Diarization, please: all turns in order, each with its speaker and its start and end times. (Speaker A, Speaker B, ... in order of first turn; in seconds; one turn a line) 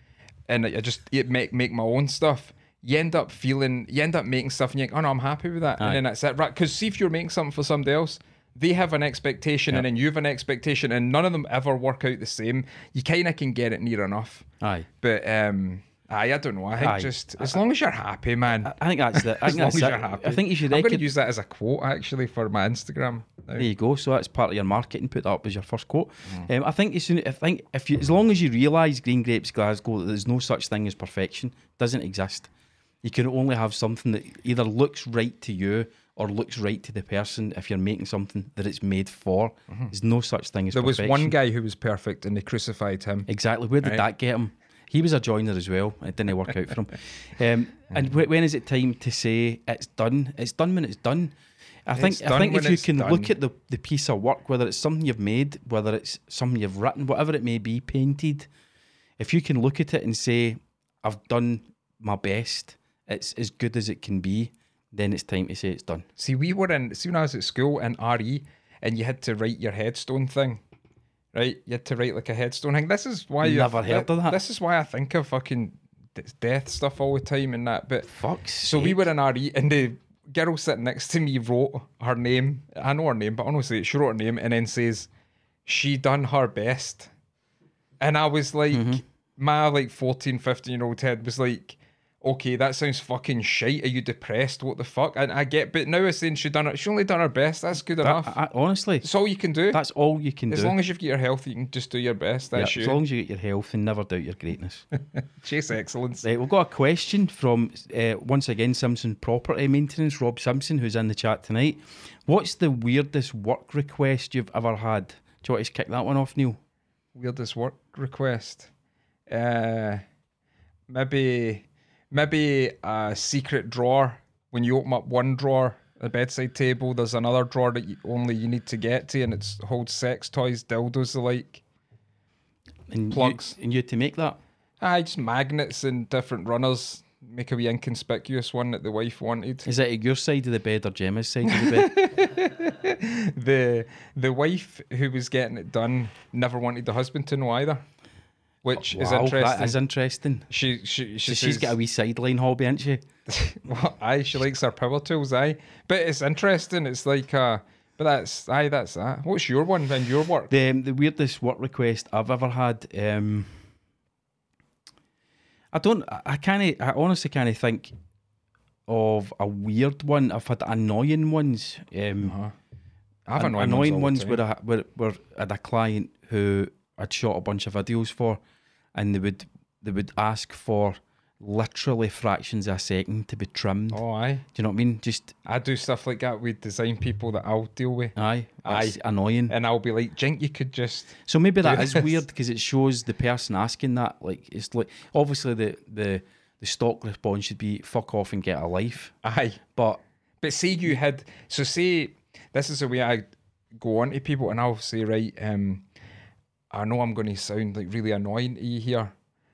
Speaker A: 0.5-14.4
Speaker B: 14.6-14.9
Speaker A: 15.0-23.6
Speaker B: 16.8-17.6
Speaker B: 18.6-21.0
Speaker B: 23.6-32.5
Speaker B: 33.0-41.3
Speaker A: 40.7-43.3
Speaker B: 43.3-51.3
Speaker B: 51.9-58.5
Speaker A: 52.0-53.3
Speaker B: 59.2-66.0
Speaker A: 66.2-70.6
Speaker A: 71.3-78.1
Speaker B: 73.4-74.4
Speaker B: 78.1-79.1
Speaker A: 78.6-85.1
Speaker A: 85.7-87.1
Speaker A: 88.0-98.3
Speaker B: 88.7-89.0
Speaker B: 98.0-99.1
Speaker A: 99.0-99.8
Speaker B: 99.7-100.7
Speaker A: 100.5-103.0
Speaker B: 102.5-104.8
Speaker A: 105.4-106.2
Speaker B: 106.2-116.6
Speaker A: 117.1-118.7
Speaker A: 119.3-120.0
Speaker A: 120.9-131.6
Speaker B: 132.9-134.4
Speaker A: 133.1-133.6
Speaker A: 134.8-139.7
Speaker B: 139.6-141.9
Speaker A: 141.5-147.8
Speaker A: 148.6-149.8
Speaker B: 148.7-150.5
Speaker A: 150.5-151.7
Speaker B: 151.2-153.0
Speaker A: 153.3-160.5
Speaker B: 160.5-163.7
Speaker B: 165.7-167.9
Speaker B: 168.9-172.3
Speaker A: 172.2-172.5
Speaker A: 173.3-174.4
Speaker B: 173.3-178.4
Speaker B: 178.9-184.0
Speaker A: 183.9-184.4
Speaker B: 184.5-185.3
Speaker A: 185.4-189.0
Speaker B: 188.2-189.5
Speaker A: 189.5-192.2
Speaker B: 191.2-199.1
Speaker A: 199.2-199.6
Speaker B: 199.7-200.0
Speaker A: 200.4-203.2
Speaker A: 203.8-205.8
Speaker A: 206.7-209.1